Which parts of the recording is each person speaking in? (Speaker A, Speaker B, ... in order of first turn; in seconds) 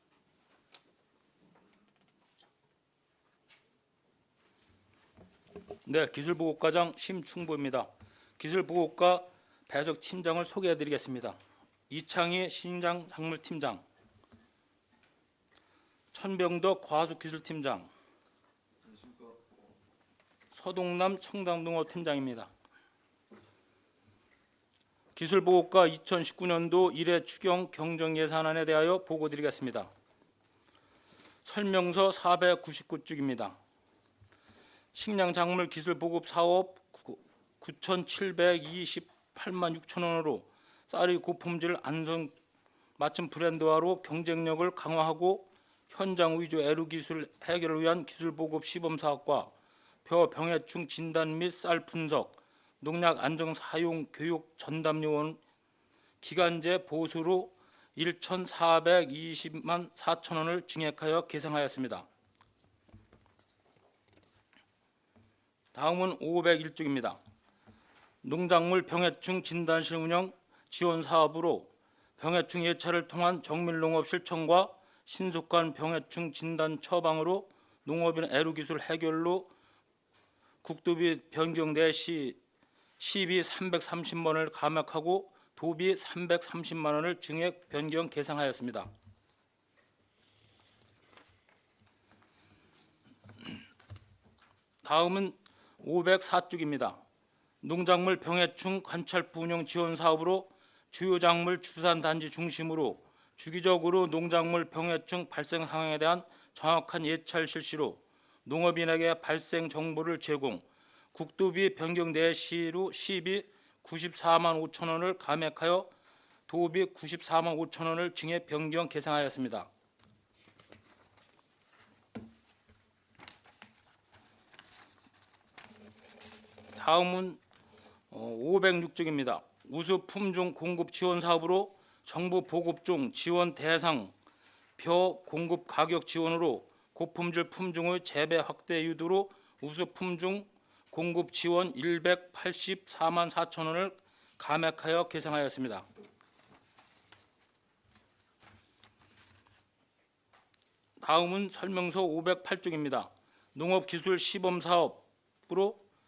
Speaker A: 5.8-13.8, 16.1-17.9, 20.5-22.5, 25.1-29.9, 31.4-33.6, 34.9-42.3, 43.0-49.5, 50.0-55.4, 56.2-62.1, 65.7-67.2, 68.2-79.5, 80.6-82.4, 83.0-88.9, 94.8-97.0, 97.6-115.9, 116.5-119.7, 126.7-127.4, 128.1-134.1, 134.8-145.9, 151.0-155.8